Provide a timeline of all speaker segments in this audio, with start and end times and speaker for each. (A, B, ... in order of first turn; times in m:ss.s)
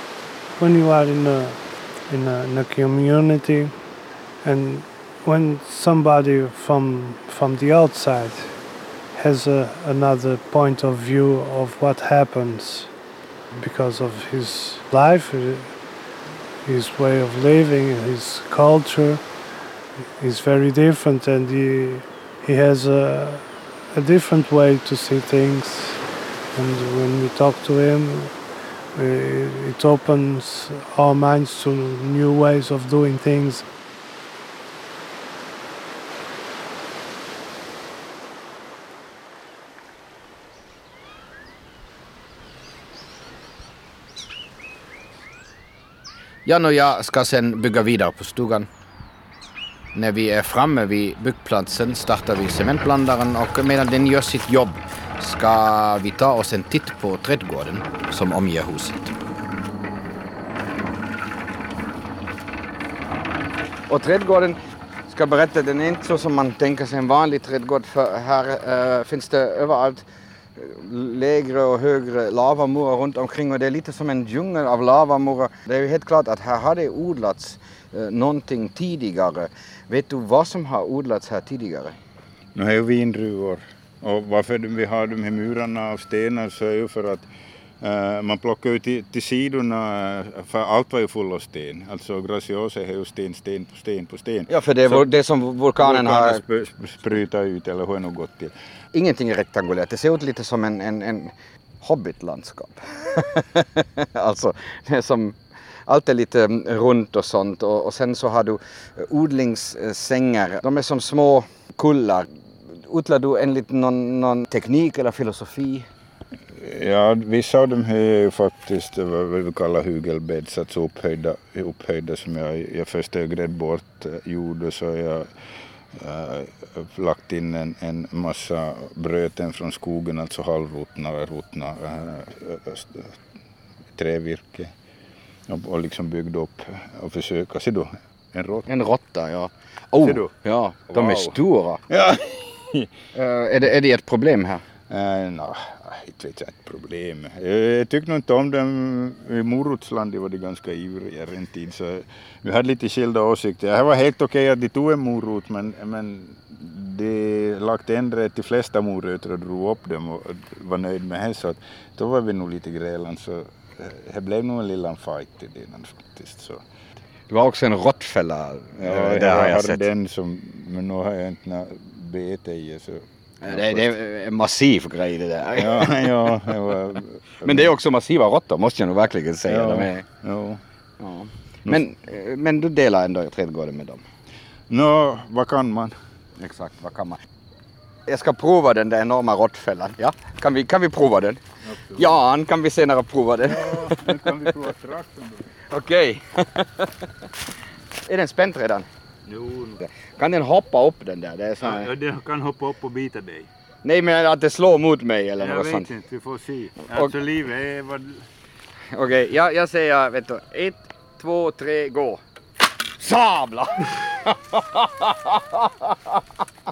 0:00.6-0:13.0 A
0:13.5-0:15.9 A
0:16.6-0:19.4 A
0:20.2-0:33.7 A
0:46.5-0:48.7 B
0:49.9-0:59.1 B
1:03.9-1:10.0 B
1:10.6-1:22.0 B
1:22.6-1:27.3 C
1:27.8-1:35.1 C
1:34.5-1:36.4 B
1:35.8-1:38.5 C
1:38.9-1:55.9 B
1:56.6-2:13.2 C
2:13.9-2:14.7 C
2:15.5-2:18.7 C
2:18.7-2:21.8 B
2:20.0-2:20.3 C
2:20.9-2:22.9 C
2:23.1-2:24.6 B
2:24.9-2:46.6 C
2:47.3-2:49.8 B
2:48.8-2:54.0 C
2:53.4-2:56.1 B
2:55.6-2:57.7 C
2:57.4-3:00.0 B
2:59.5-3:00.6 C
3:01.0-3:04.0 B
3:04.7-3:06.0 C
3:06.4-3:07.2 B
3:08.1-3:11.4 B
3:11.6-3:12.2 C
3:12.0-3:14.1 B
3:13.4-3:15.5 C
3:15.7-3:16.9 B
3:18.0-3:18.9 B
3:19.3-3:19.8 C
3:19.9-3:21.9 B
3:21.6-3:23.5 C
3:23.8-3:25.9 B
3:25.4-3:28.3 C
3:28.9-3:32.2 B
3:33.0-3:36.2 B